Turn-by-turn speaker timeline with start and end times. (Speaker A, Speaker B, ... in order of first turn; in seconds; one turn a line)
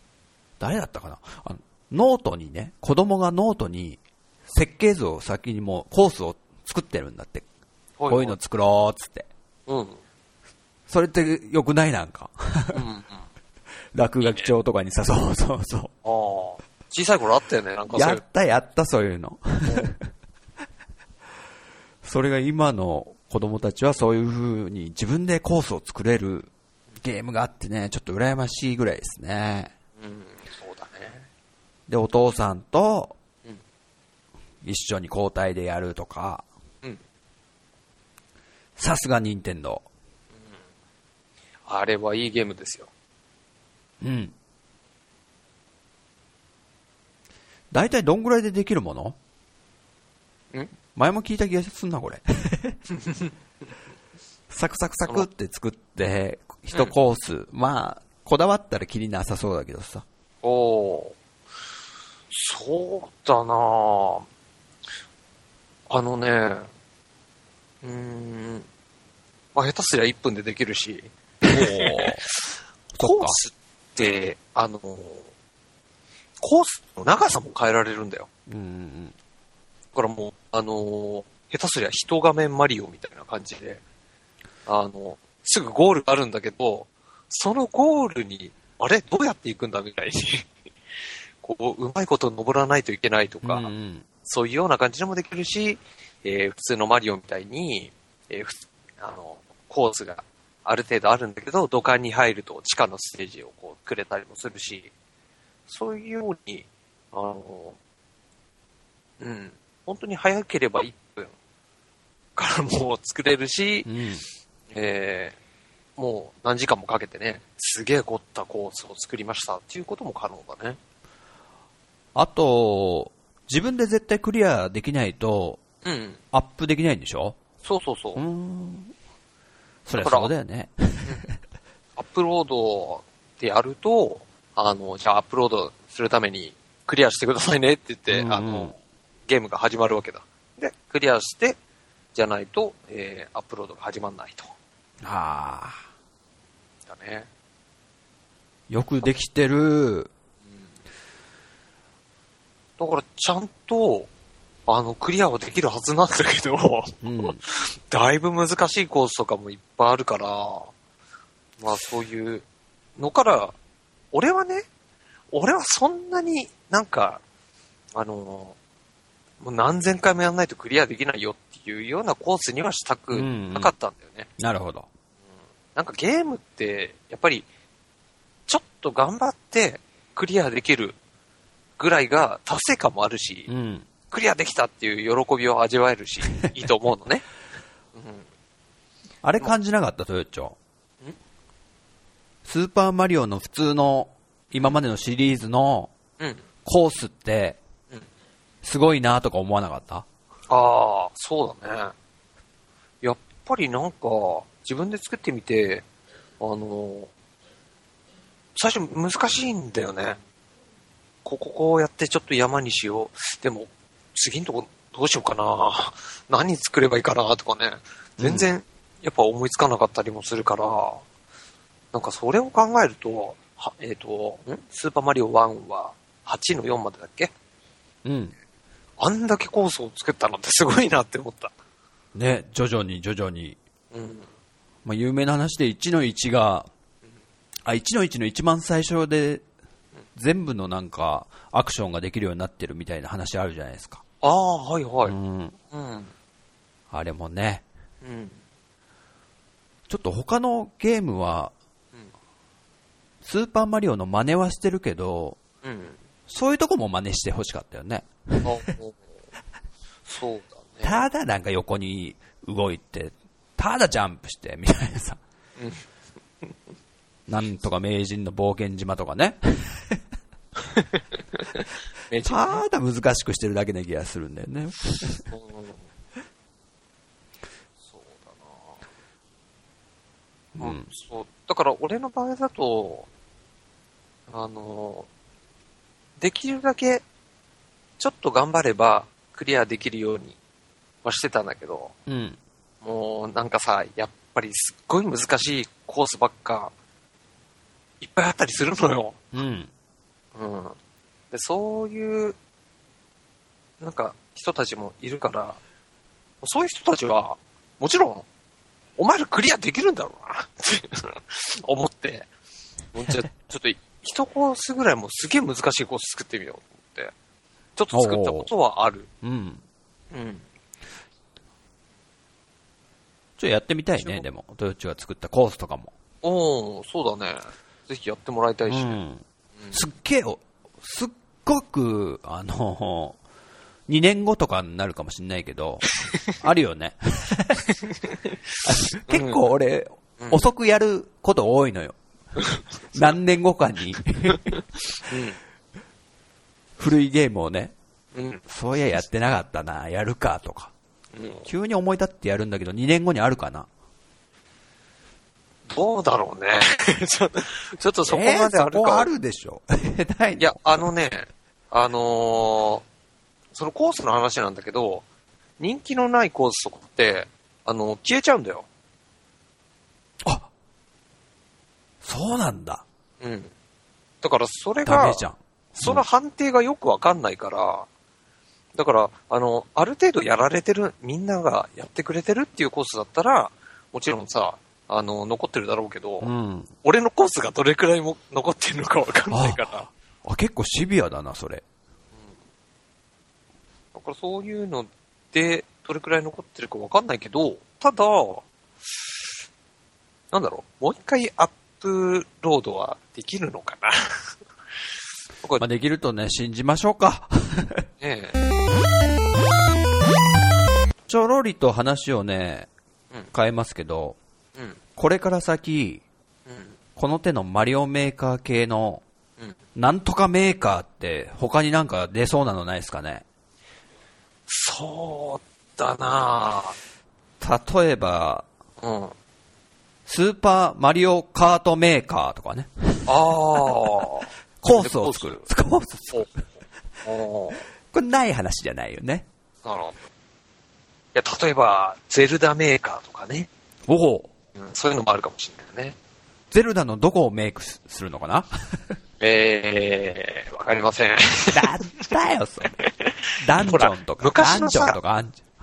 Speaker A: 0.6-7.5
Speaker B: 8.0-8.4
Speaker A: 8.1-9.3
Speaker B: 9.7-10.0
Speaker A: 10.9-12.8
Speaker B: 12.7-13.2
Speaker A: 13.9-15.9
Speaker B: 14.2-14.5
Speaker B: 16.0-18.2
Speaker A: 17.9-20.0
Speaker B: 19.6-19.9
Speaker A: 22.0-29.7
Speaker B: 30.0-31.3
Speaker A: 31.9-33.1
Speaker A: 34.6-36.5
Speaker A: 38.8-39.9
Speaker B: 41.7-42.9
Speaker A: 44.0-44.3
Speaker A: 47.7-49.2
Speaker A: 51.0-52.8
Speaker B: 53.0-53.3
Speaker A: 54.5-60.0
Speaker B: 60.4-61.2
Speaker B: 62.3-64.3
Speaker B: 65.9-66.7
Speaker B: 67.8-68.7
Speaker B: 69.5-75.3
Speaker A: 71.5-72.2
Speaker A: 72.9-73.4
Speaker B: 76.4-78.3
Speaker A: 78.5-79.1
Speaker B: 79.9-83.8
Speaker B: 84.7-90.5
Speaker B: 91.4-93.7
Speaker A: 93.4-94.0
Speaker B: 94.2-104.9
Speaker B: 105.7-107.8
Speaker B: 109.2-111.3
Speaker B: 112.4-113.9
Speaker A: 113.9-114.2
Speaker B: 114.7-115.4
Speaker B: 116.0-120.8
Speaker A: 122.2-125.6
Speaker B: 125.8-126.2
Speaker A: 126.3-127.4
Speaker B: 127.6-128.2
Speaker A: 128.2-128.9
Speaker A: 129.9-131.3
Speaker B: 129.9-130.3
Speaker B: 132.0-138.8
Speaker A: 138.1-138.7
Speaker B: 139.3-141.6
Speaker B: 142.1-144.5
Speaker A: 145.0-145.8
Speaker B: 146.9-147.3
Speaker A: 148.7-150.1
Speaker B: 152.8-154.1
Speaker B: 154.7-160.7
Speaker A: 157.0-157.4
Speaker B: 161.6-162.4
Speaker B: 163.0-163.6
Speaker B: 164.1-164.7
Speaker B: 165.3-167.2
Speaker B: 167.9-168.6
Speaker B: 169.4-174.3
Speaker A: 173.1-173.7
Speaker A: 174.4-174.9
Speaker B: 175.8-177.5
Speaker B: 178.5-181.0
Speaker B: 181.8-183.5
Speaker A: 183.5-183.9
Speaker B: 184.1-187.3
Speaker B: 187.9-188.2
Speaker A: 189.2-190.6
Speaker A: 192.4-195.9
Speaker A: 196.7-197.6
Speaker A: 198.6-200.1
Speaker B: 200.5-201.9
Speaker B: 203.0-205.8
Speaker B: 206.4-207.1
Speaker B: 208.6-210.2
Speaker B: 211.2-221.0
Speaker A: 218.2-218.5
Speaker B: 221.9-227.3
Speaker A: 228.1-228.3
Speaker B: 229.0-231.5
Speaker A: 232.2-233.6
Speaker B: 233.9-234.3
Speaker A: 234.8-236.7
Speaker A: 237.7-239.4
Speaker A: 240.2-244.0
Speaker B: 244.2-245.2
Speaker A: 245.1-245.6
Speaker B: 245.7-246.1
Speaker A: 246.9-247.6
Speaker B: 248.0-248.4
Speaker A: 249.9-251.5
Speaker A: 253.2-255.4
Speaker B: 255.6-256.0
Speaker A: 256.3-258.7
Speaker B: 258.4-259.0
Speaker B: 260.1-261.0
Speaker A: 260.8-265.2
Speaker B: 265.6-265.9
Speaker A: 267.3-270.0
Speaker B: 270.6-272.6
Speaker A: 272.2-275.2
Speaker B: 275.3-275.8
Speaker B: 277.9-278.8
Speaker A: 280.6-280.9
Speaker B: 280.6-283.1
Speaker B: 284.3-285.1
Speaker B: 286.2-287.0
Speaker B: 288.0-290.4
Speaker B: 291.0-291.9
Speaker A: 292.1-292.4
Speaker B: 292.8-296.7
Speaker B: 298.0-299.2
Speaker A: 299.3-299.7
Speaker B: 300.4-300.8
Speaker B: 301.3-302.4
Speaker B: 303.8-305.6
Speaker B: 306.4-308.2
Speaker B: 309.0-312.3
Speaker B: 312.9-317.1
Speaker B: 317.8-319.1
Speaker A: 317.9-318.5
Speaker A: 319.2-319.6
Speaker B: 320.1-320.4
Speaker A: 323.4-325.9
Speaker B: 324.0-324.3
Speaker B: 326.2-329.0
Speaker A: 328.7-333.2
Speaker A: 333.9-337.7
Speaker B: 337.7-339.4
Speaker A: 338.6-341.9
Speaker B: 340.2-340.5
Speaker B: 342.4-343.1
Speaker A: 342.9-344.6
Speaker B: 344.3-345.4
Speaker A: 346.8-347.7
Speaker B: 348.1-348.4
Speaker A: 348.5-350.7
Speaker B: 351.1-351.5
Speaker A: 351.5-353.7
Speaker B: 355.7-359.1
Speaker A: 358.1-360.9
Speaker B: 360.4-362.8
Speaker B: 363.5-365.1
Speaker B: 365.6-368.7
Speaker A: 370.2-370.5
Speaker A: 372.0-372.8
Speaker B: 373.2-373.5
Speaker B: 374.2-375.2
Speaker A: 374.9-376.1
Speaker B: 375.8-377.9
Speaker B: 378.8-386.3
Speaker A: 386.2-386.7
Speaker B: 386.8-389.9
Speaker A: 389.3-391.6
Speaker B: 393.9-398.5
Speaker B: 400.3-404.3
Speaker A: 405.6-407.9
Speaker B: 408.0-408.4
Speaker A: 411.1-412.7
Speaker A: 413.3-414.2
Speaker A: 415.0-416.0
Speaker B: 416.5-416.8
Speaker A: 417.0-419.0
Speaker A: 419.8-423.2
Speaker B: 424.5-426.8
Speaker A: 427.4-428.4
Speaker B: 428.8-429.1
Speaker A: 430.1-433.8
Speaker B: 433.1-435.4
Speaker A: 434.6-436.3
Speaker B: 437.0-437.6
Speaker A: 437.9-439.2
Speaker B: 439.6-440.0
Speaker B: 441.1-443.5
Speaker A: 443.9-444.3
Speaker B: 444.6-446.0
Speaker A: 446.5-448.9
Speaker B: 449.2-451.7
Speaker A: 451.5-452.7
Speaker B: 452.8-455.0
Speaker A: 453.4-455.4